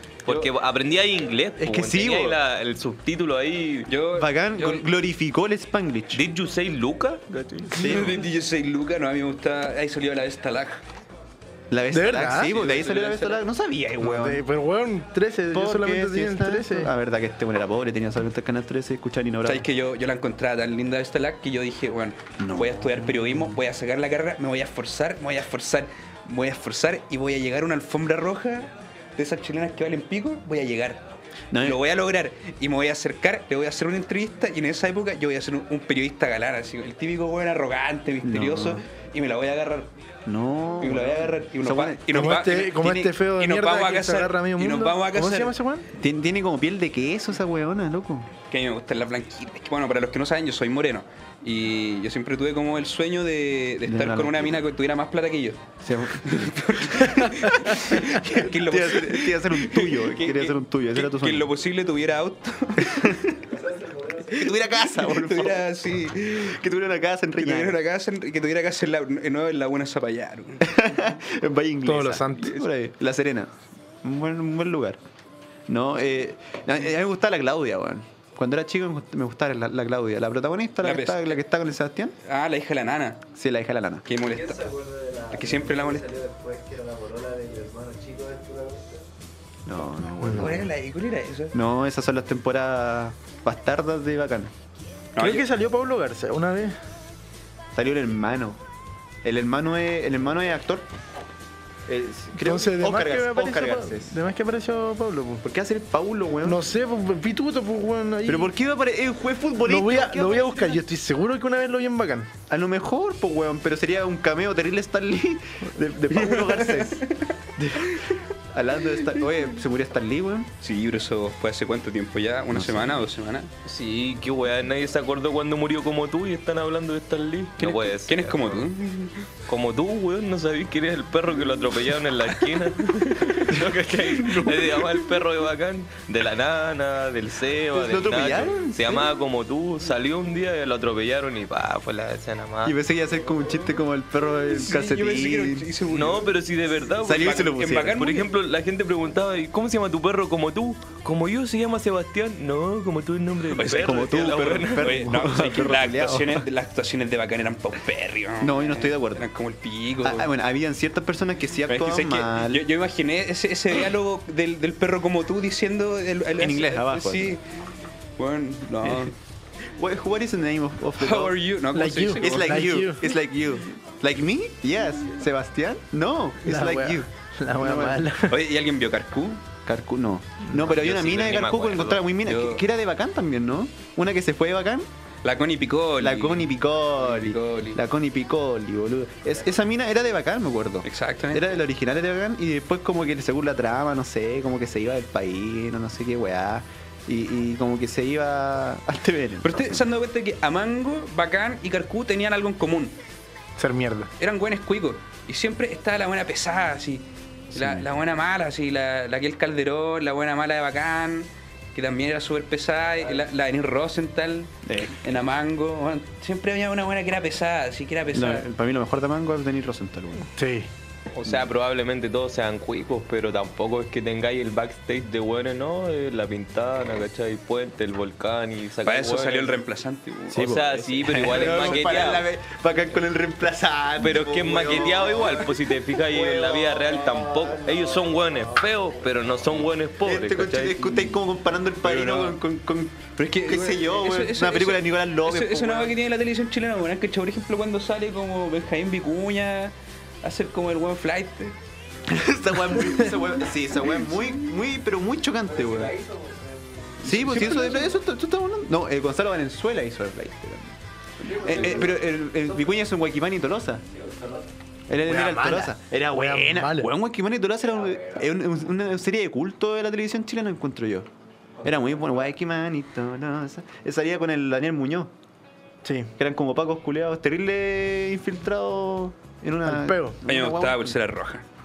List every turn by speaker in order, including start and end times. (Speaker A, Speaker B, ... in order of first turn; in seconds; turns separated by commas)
Speaker A: 0.3-3.9, Speaker B: 1.6-2.4, Speaker C: 3.9-4.9, Speaker B: 4.1-6.2, Speaker A: 6.1-7.9, Speaker B: 7.7-8.2, Speaker C: 7.8-10.8, Speaker B: 11.7-14.4, Speaker D: 11.9-12.5, Speaker C: 12.4-13.4, Speaker D: 14.0-16.9, Speaker B: 15.5-19.6, Speaker C: 19.4-31.1, Speaker B: 22.4-23.6, Speaker B: 31.5-31.8, Speaker C: 31.6-39.9, Speaker B: 38.2-38.8, Speaker B: 40.3-42.4, Speaker C: 40.8-45.5, Speaker D: 42.1-45.9, Speaker B: 45.9-48.3, Speaker C: 48.5-55.7, Speaker B: 53.9-54.6, Speaker B: 55.8-61.5, Speaker C: 56.2-63.1, Speaker B: 62.8-63.4, Speaker E: 63.5-64.4, Speaker B: 64.3-67.8, Speaker C: 64.4-66.6, Speaker C: 67.4-70.7, Speaker B: 70.6-75.0, Speaker D: 71.9-72.7, Speaker B: 75.7-82.2, Speaker C: 80.8-81.4, Speaker C: 82.2-83.2, Speaker B: 83.3-84.1, Speaker C: 84.1-84.7, Speaker E: 84.2-89.1, Speaker C: 85.3-86.1, Speaker B: 89.7-90.8, Speaker C: 90.3-91.5, Speaker B: 91.5-94.5, Speaker C: 95.2-95.5, Speaker D: 95.2-96.8, Speaker B: 97.7-98.6, Speaker B: 99.2-100.9, Speaker B: 101.9-104.2, Speaker D: 102.4-105.4, Speaker B: 105.4-106.6, Speaker D: 106.4-108.5, Speaker B: 108.3-110.8, Speaker D: 109.7-112.3, Speaker B: 112.5-117.0, Speaker C: 116.1-118.2, Speaker B: 117.6-118.0, Speaker B: 118.5-120.5, Speaker C: 120.6-123.5, Speaker B: 122.5-123.0, Speaker A: 123.7-128.7, Speaker C: 127.6-129.3, Speaker A: 129.5-142.8, Speaker B: 133.5-135.0, Speaker B: 137.7-139.1, Speaker B: 142.6-145.7, Speaker C: 144.5-146.4, Speaker A: 145.9-154.9, Speaker B: 147.0-148.0, Speaker C: 147.0-148.3, Speaker C: 153.5-160.3, Speaker B: 153.6-156.4, Speaker B: 158.4-159.3, Speaker B: 160.0-162.6, Speaker C: 161.7-167.4, Speaker B: 166.4-167.4, Speaker C: 168.2-169.2, Speaker B: 168.8-169.1, Speaker B: 169.8-171.4, Speaker C: 171.0-172.9, Speaker D: 171.7-173.0, Speaker B: 172.2-178.1, Speaker D: 176.4-178.4, Speaker C: 178.3-179.4, Speaker B: 179.7-184.9, Speaker A: 180.6-182.1, Speaker C: 182.2-182.6, Speaker C: 185.2-187.8, Speaker B: 186.0-199.8, Speaker C: 190.8-191.5, Speaker C: 199.4-203.0, Speaker D: 203.6-204.1, Speaker C: 204.2-218.5, Speaker B: 207.5-207.9, Speaker B: 214.7-215.0, Speaker B: 218.1-220.3, Speaker D: 220.3-220.7, Speaker A: 221.2-229.6, Speaker C: 228.8-232.2, Speaker B: 230.3-237.7, Speaker A: 230.3-232.2, Speaker A: 234.0-240.8, Speaker E: 237.7-238.4, Speaker B: 240.0-246.0, Speaker C: 240.8-241.2, Speaker C: 241.8-242.4, Speaker C: 243.2-251.6, Speaker B: 252.1-255.9, Speaker E: 255.5-257.2, Speaker C: 257.0-257.9, Speaker B: 257.0-260.8, Speaker E: 261.2-262.8, Speaker C: 261.3-262.0, Speaker B: 261.5-263.9, Speaker E: 263.9-264.5, Speaker B: 264.9-271.1, Speaker D: 265.1-266.9, Speaker E: 267.9-268.1, Speaker E: 271.6-272.2, Speaker B: 271.6-275.1, Speaker D: 275.8-276.1, Speaker B: 276.2-281.0, Speaker D: 279.7-280.2, Speaker C: 280.3-281.4